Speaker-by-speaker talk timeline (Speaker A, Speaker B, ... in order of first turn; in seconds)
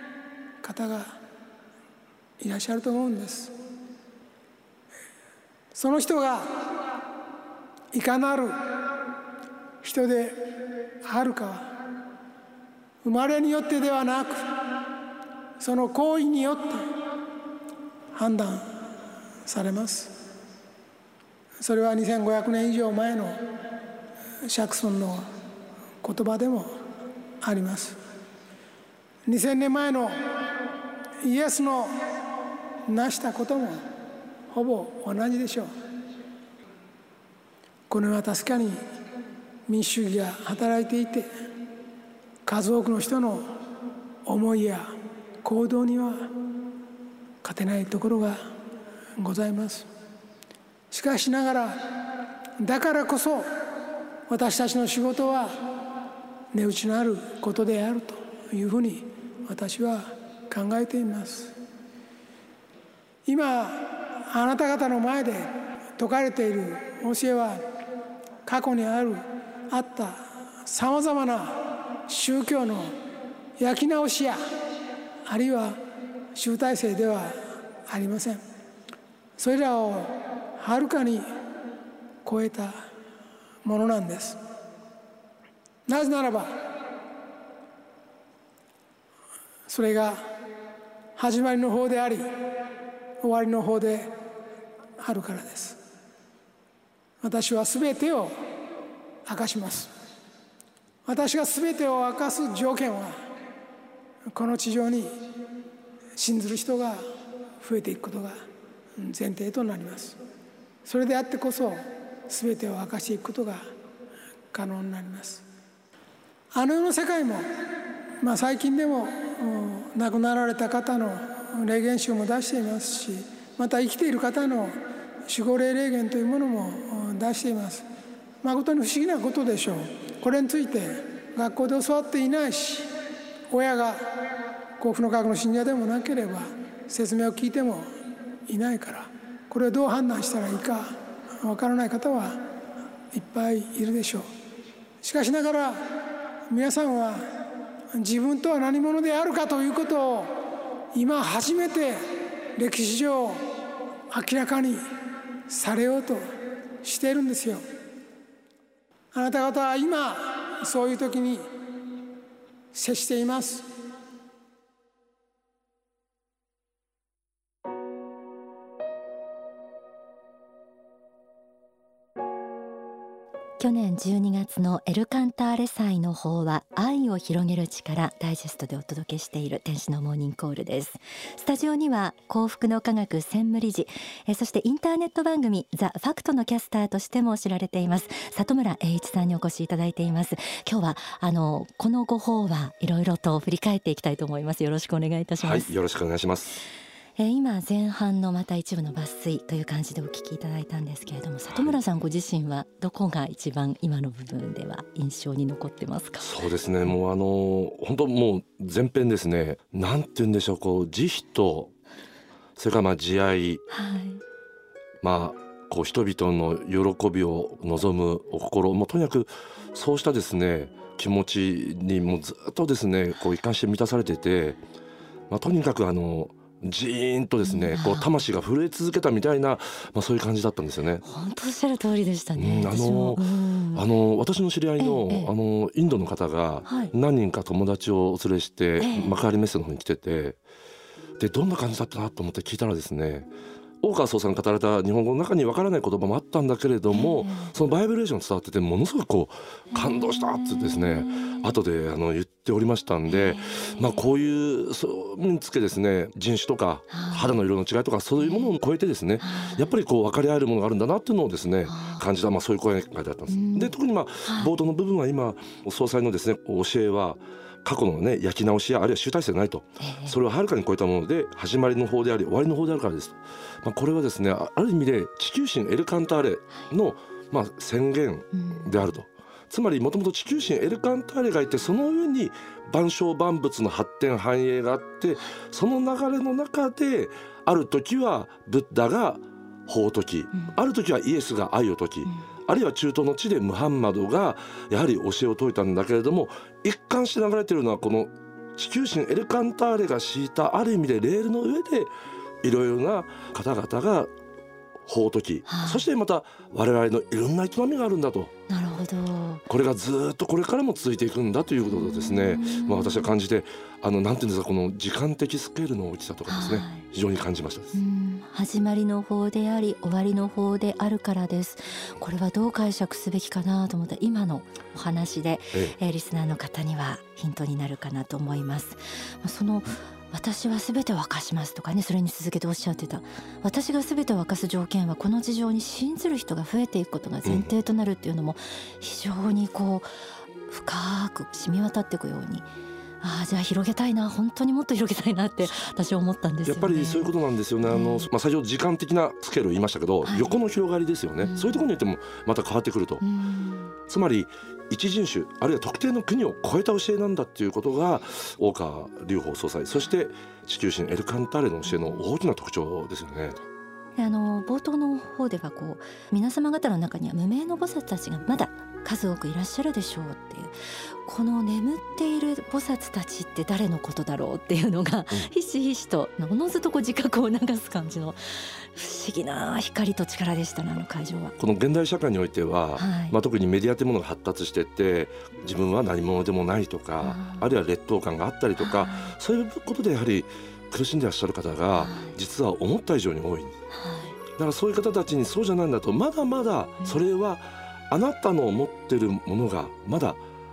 Speaker A: 0.6-1.1, 2.4-3.5, 5.7-6.5, 7.9-8.6, 9.8-10.5, 11.0-11.7, 13.0-14.5, 15.6-16.9, 18.1-18.6, 19.5-20.1, 21.6-23.4, 24.5-25.2, 26.0-26.7, 27.4-28.0, 29.3-30.1, 31.2-31.9, 32.9-33.8, 34.5-35.7, 37.9-38.8, 39.7-41.3, 42.5-43.5, 44.3-44.9, 45.4-46.3, 47.4-48.4, 49.2-49.9, 50.9-51.8, 52.6-53.5, 54.3-55.5, 56.5-61.5, 63.3-67.6, 68.5-72.9, 73.6-74.4, 75.3-75.8, 76.3-78.4, 79.4-81.3, 82.2-82.7, 83.6-84.4, 85.9-86.5, 89.7-90.2, 91.2-92.3, 93.2-94.1, 95.0-95.8, 97.2-98.3, 99.3-99.9, 101.1-103.2, 104.3-105.1, 106.2-107.0, 107.6-108.4, 109.0-110.2, 110.8-113.6, 114.5-115.5, 116.5-117.4, 118.2-124.8, 125.3-127.8, 128.4-132.9, 133.5-134.0, 134.8-137.9, 138.5-140.9, 141.4-142.4, 143.1-144.3, 145.0-145.8, 146.5-147.2, 147.9-150.3, 150.9-152.0, 152.6-153.4, 154.1-154.8, 155.5-156.2, 156.8-157.6, 159.1-161.5, 162.7-163.7
Speaker B: 173.6-195.8, 197.2-206.3, 213.7-214.2, 227.4-228.1, 231.0-233.8, 234.8-235.3, 236.7-236.9, 238.8-239.2, 246.9-247.6, 249.7-251.5, 253.1-254.1, 256.9-257.4, 258.2-258.6, 259.2-259.7, 261.7-262.1, 263.3-263.7, 264.3-264.5, 269.8-270.2, 278.3-278.9, 305.5-305.8, 308.5-309.4, 311.7-313.1, 316.3-316.9, 317.7-339.9, 340.5-342.5, 343.0-347.1, 347.7-348.1, 350.1-350.4, 351.2-351.7, 353.0-353.8, 361.7-362.0, 364.0-381.3, 382.8-383.2, 387.0-387.5, 388.6-389.2, 391.7-392.2, 393.7-394.2
Speaker C: 195.4-196.6, 206.2-211.7, 212.6-213.6, 215.0-224.6, 225.3-231.0, 232.4-240.4, 241.2-243.3, 243.8-301.9, 302.4-304.1, 304.9-308.3, 309.5-317.8, 337.2-337.5, 346.5-353.0, 353.9-363.4, 381.4-393.5, 394.4-400.2